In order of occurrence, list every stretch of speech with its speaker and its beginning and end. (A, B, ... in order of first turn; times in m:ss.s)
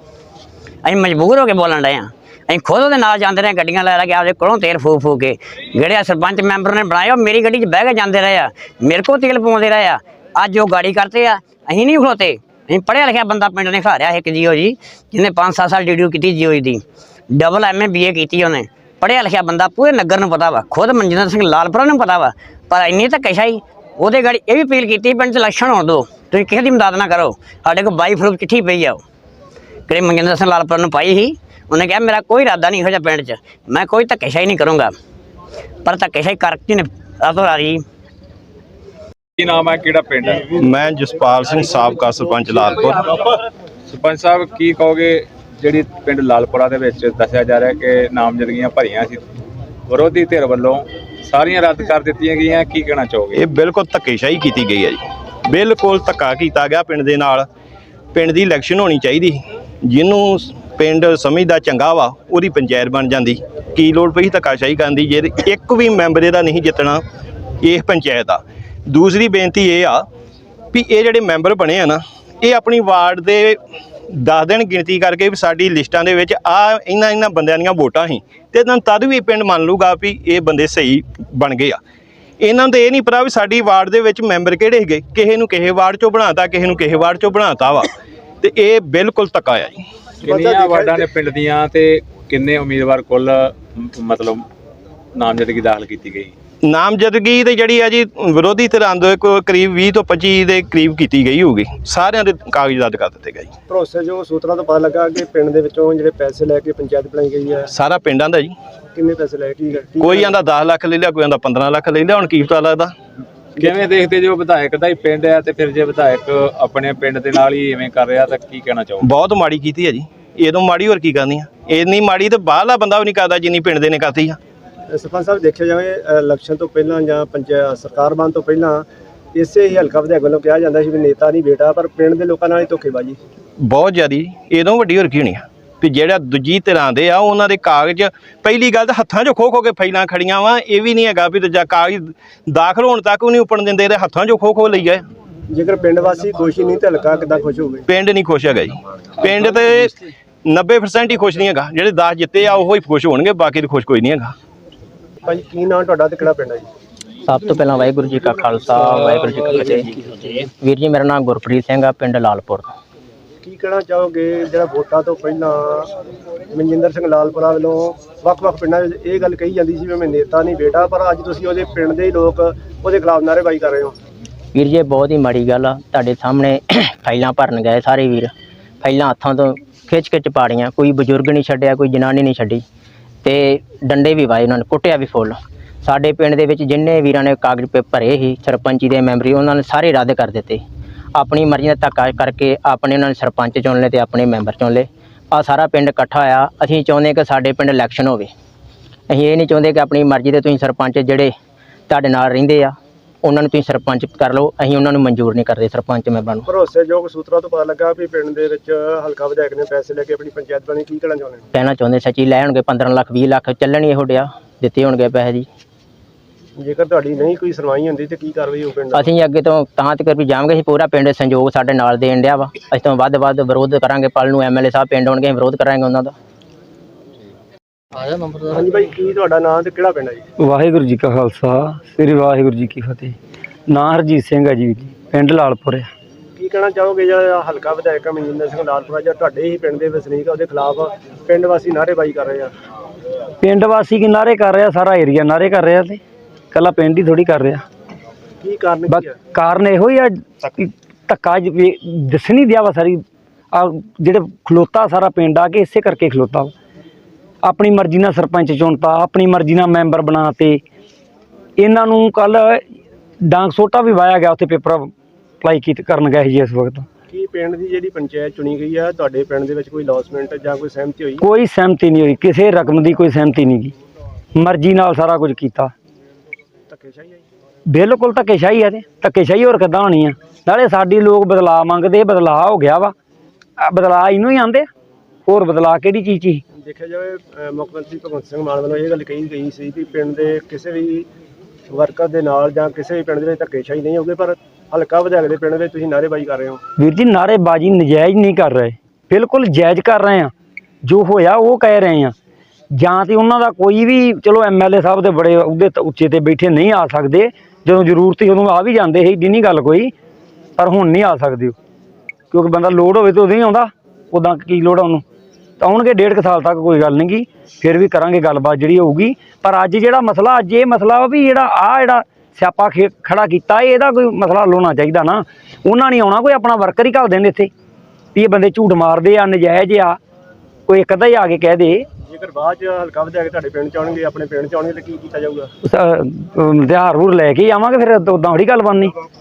0:00.8-0:29.0 A
0:29.9-0:34.9 A
0:35.8-0:37.8 A
0:39.4-0:40.6 B
0:40.6-0:43.2 C
0:43.9-0:49.2 B
0:49.9-0:53.4 B
0:53.3-0:57.4 C
0:58.1-1:07.0 C
1:07.6-1:10.0 C
1:10.7-1:13.6 C
1:14.1-1:21.8 C
1:22.4-1:29.8 C
1:30.2-1:31.0 D
1:30.2-1:34.4 B
1:35.2-1:36.3 B
1:36.6-1:43.5 C
1:43.7-1:47.7 D
1:47.7-1:48.5 C
1:48.9-1:50.4 D
1:50.0-1:52.9 C
1:53.6-1:59.1 B
1:59.0-2:04.4 C
2:04.9-2:13.2 D
2:13.6-2:25.0 C
2:25.5-2:27.8 D
2:27.9-2:29.9 C
2:30.4-2:34.3 C
2:35.2-2:36.7 D
2:37.2-2:42.7 E
2:43.4-2:45.9 D
2:46.5-2:53.9 D
2:54.5-3:02.6 E
3:03.2-3:10.6 E
3:11.2-3:18.3 E
3:19.1-3:21.3 E
3:21.9-3:26.5 E
3:26.5-3:31.5 D
3:31.5-3:35.5 E
3:36.6-3:39.0 D
3:38.9-3:46.1 E
3:48.4-3:50.2 D
3:50.4-3:53.1 F
3:53.7-3:55.9 F
3:56.4-4:02.5 D
4:03.4-4:06.0 F
4:06.5-4:07.6 F
4:08.4-4:09.2 D
4:08.9-4:16.5 F
4:17.4-4:20.6 F
4:21.6-4:22.6 F
4:23.2-4:24.9 F
4:25.4-4:26.8 F
4:27.1-4:31.3 D
4:31.2-4:33.7 F
4:34.4-4:35.7 F
4:36.7-4:37.2 D
4:37.7-4:42.9 F
4:43.6-4:44.7 F
4:45.3-4:46.4 F
4:46.5-4:51.1 D
4:51.7-4:56.6 D
4:56.8-5:00.3 F
5:00.8-5:02.1 F
5:02.7-5:09.9 F
5:10.6-5:11.6 F
5:12.3-5:15.0 F
5:15.6-5:27.5 F
5:28.1-5:30.0 F
5:30.7-5:31.8 F
5:32.0-5:35.5 D
5:35.6-5:38.9 F